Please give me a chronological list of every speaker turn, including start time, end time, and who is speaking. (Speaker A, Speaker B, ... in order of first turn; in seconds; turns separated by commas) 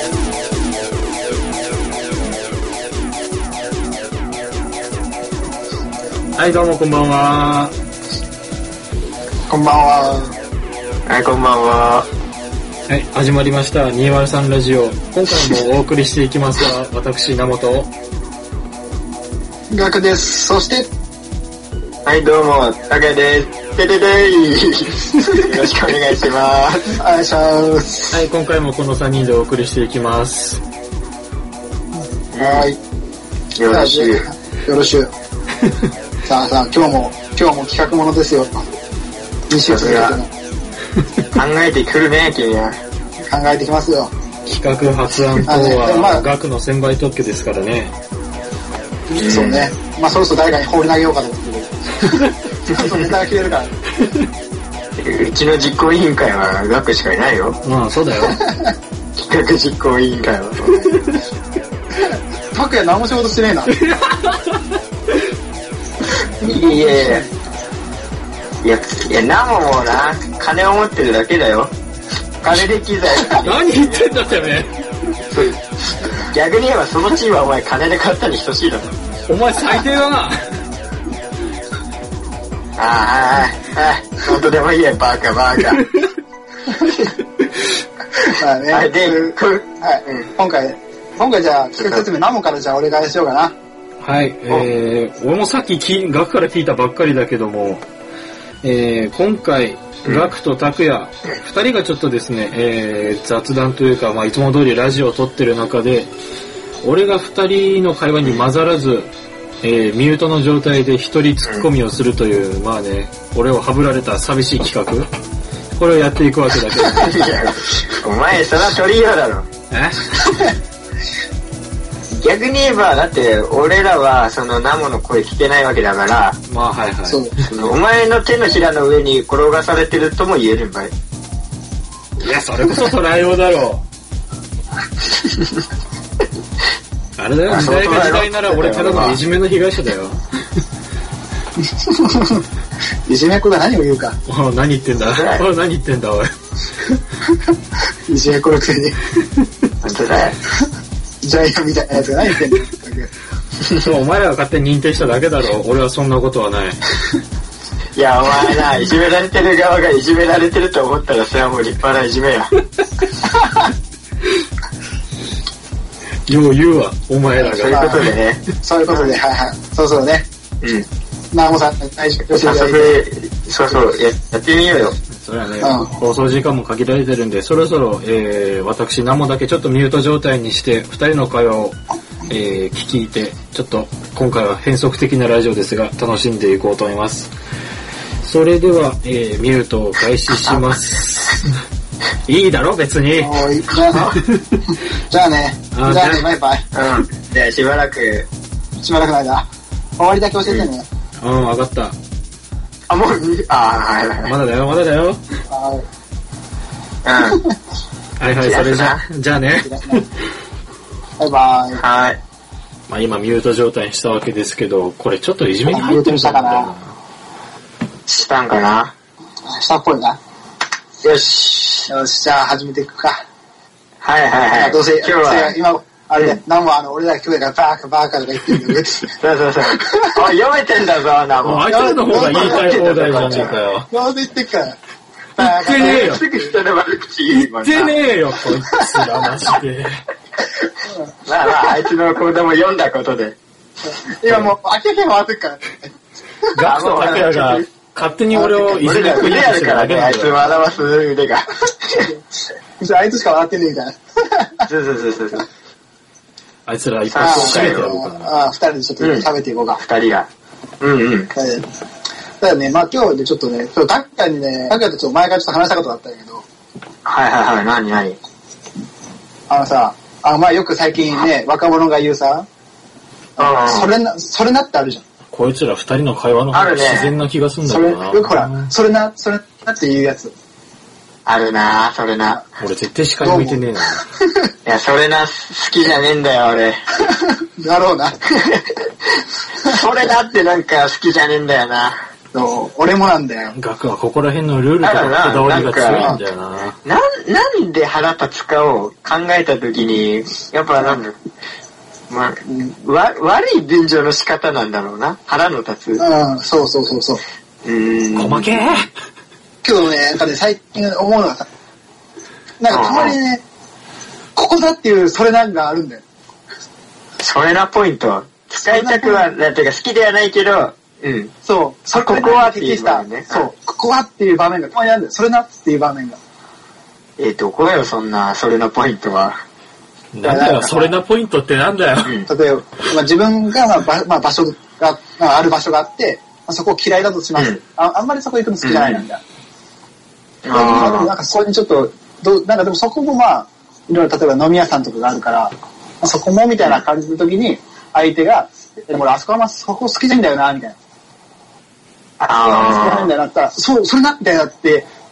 Speaker A: 6.3-7.7, Speaker B: 9.5-10.3, Speaker C: 11.1-12.1, Speaker A: 12.9-17.9, Speaker B: 19.7-20.9, Speaker C: 22.0-27.0, Speaker B: 26.9-28.2, Speaker A: 28.1-30.6, Speaker C: 32.3-32.7, Speaker B: 32.4-32.8, Speaker C: 33.5-34.2, Speaker B: 33.7-35.1, Speaker B: 36.2-38.6, Speaker B: 39.5-40.3, Speaker C: 39.6-40.2, Speaker C: 41.3-42.8, Speaker B: 43.3-44.1, Speaker A: 44.5-47.9, Speaker B: 45.4-46.2, Speaker B: 49.1-53.7, Speaker C: 49.2-49.7, Speaker C: 55.0-57.6, Speaker A: 57.6-58.4, Speaker B: 58.4-58.7, Speaker C: 59.1-61.0, Speaker B: 62.1-63.8, Speaker A: 63.8-64.6, Speaker C: 66.4-67.2, Speaker B: 66.5-67.3, Speaker C: 68.6-71.7, Speaker C: 72.4-74.0, Speaker A: 73.3-74.7, Speaker C: 75.3-78.9, Speaker A: 79.3-80.4, Speaker C: 82.8-85.8, Speaker C: 86.8-87.1, Speaker B: 88.2-93.5, Speaker C: 88.7-90.2, Speaker C: 91.8-92.0, Speaker A: 94.0-97.8, Speaker A: 98.6-106.1, Speaker A: 106.8-109.1, Speaker A: 109.6-115.1, Speaker A: 115.8-117.3, Speaker C: 116.9-119.5, Speaker A: 119.7-120.2, Speaker B: 120.2-120.5, Speaker C: 122.1-126.4, Speaker A: 126.5-127.5, Speaker B: 127.1-127.3, Speaker C: 127.4-130.9, Speaker A: 132.2-133.8, Speaker A: 137.2-140.2, Speaker C: 137.4-139.2, Speaker B: 141.7-142.4, Speaker B: 143.1-144.2, Speaker A: 144.3-146.3, Speaker C: 145.1-145.4, Speaker B: 148.1-149.0, Speaker C: 149.8-150.4, Speaker B: 151.2-153.1, Speaker A: 153.8-156.9, Speaker C: 157.9-162.5, Speaker A: 166.3-168.1, Speaker C: 167.4-169.2, Speaker B: 167.6-168.1, Speaker B: 168.6-170.3, Speaker C: 170.6-170.9, Speaker B: 171.3-173.0, Speaker C: 172.3-175.0, Speaker A: 175.1-187.3, Speaker B: 175.6-175.9, Speaker A: 188.2-191.5, Speaker A: 192.3-193.4, Speaker B: 193.2-194.2, Speaker C: 193.9-194.2, Speaker B: 195.1-196.7, Speaker A: 195.7-196.2, Speaker C: 196.7-198.3, Speaker B: 198.8-199.5, Speaker B: 200.0-200.9, Speaker A: 201.2-201.9, Speaker C: 202.9-204.3, Speaker A: 204.2-205.2, Speaker B: 205.5-205.8, Speaker C: 207.0-207.4, Speaker A: 208.2-210.1, Speaker C: 208.4-209.0, Speaker B: 209.6-210.0, Speaker B: 211.2-211.8, Speaker C: 211.8-212.2, Speaker A: 212.9-216.9, Speaker B: 215.7-216.7, Speaker C: 218.1-218.9, Speaker B: 219.4-220.2, Speaker C: 221.0-221.9, Speaker B: 221.9-223.2, Speaker C: 224.0-225.5, Speaker B: 224.5-229.1, Speaker C: 229.1-233.6, Speaker B: 229.7-230.2, Speaker A: 231.4-233.9, Speaker B: 231.7-234.8, Speaker B: 235.4-236.2, Speaker A: 235.4-236.2, Speaker C: 235.7-237.9, Speaker A: 237.3-240.0, Speaker B: 240.8-241.1, Speaker C: 241.2-243.3, Speaker B: 243.9-245.9, Speaker A: 246.5-250.4, Speaker C: 246.6-247.7, Speaker B: 248.4-248.6, Speaker C: 248.4-252.1, Speaker B: 252.8-254.7, Speaker C: 254.7-255.4, Speaker A: 256.7-258.3, Speaker C: 257.1-257.9, Speaker B: 257.2-259.8, Speaker C: 259.0-260.3, Speaker C: 260.8-261.3, Speaker B: 261.3-261.6, Speaker B: 262.4-266.4, Speaker C: 267.0-268.2, Speaker B: 269.5-272.5, Speaker B: 273.4-275.0, Speaker C: 273.4-273.9, Speaker A: 275.3-278.7, Speaker C: 276.5-277.1, Speaker B: 277.6-280.3, Speaker C: 281.2-282.4, Speaker A: 282.6-284.0, Speaker B: 283.2-283.6, Speaker C: 284.6-286.8, Speaker B: 287.1-288.1, Speaker C: 288.2-292.0, Speaker B: 292.3-293.5, Speaker A: 293.6-296.8, Speaker C: 294.8-296.1, Speaker C: 296.8-301.2, Speaker C: 302.1-306.0, Speaker B: 306.0-307.2, Speaker C: 307.6-308.9, Speaker A: 308.1-308.9, Speaker B: 309.6-311.5, Speaker B: 312.6-313.4, Speaker C: 312.7-313.2, Speaker B: 314.4-316.0, Speaker C: 317.2-321.3, Speaker B: 318.6-319.2, Speaker B: 321.4-326.2, Speaker C: 321.9-323.5, Speaker C: 327.2-329.4, Speaker A: 330.1-332.1, Speaker B: 330.2-330.9, Speaker B: 332.3-339.2, Speaker C: 338.6-339.0, Speaker C: 340.4-341.1, Speaker B: 340.5-350.8, Speaker C: 352.2-353.1, Speaker B: 352.3-354.9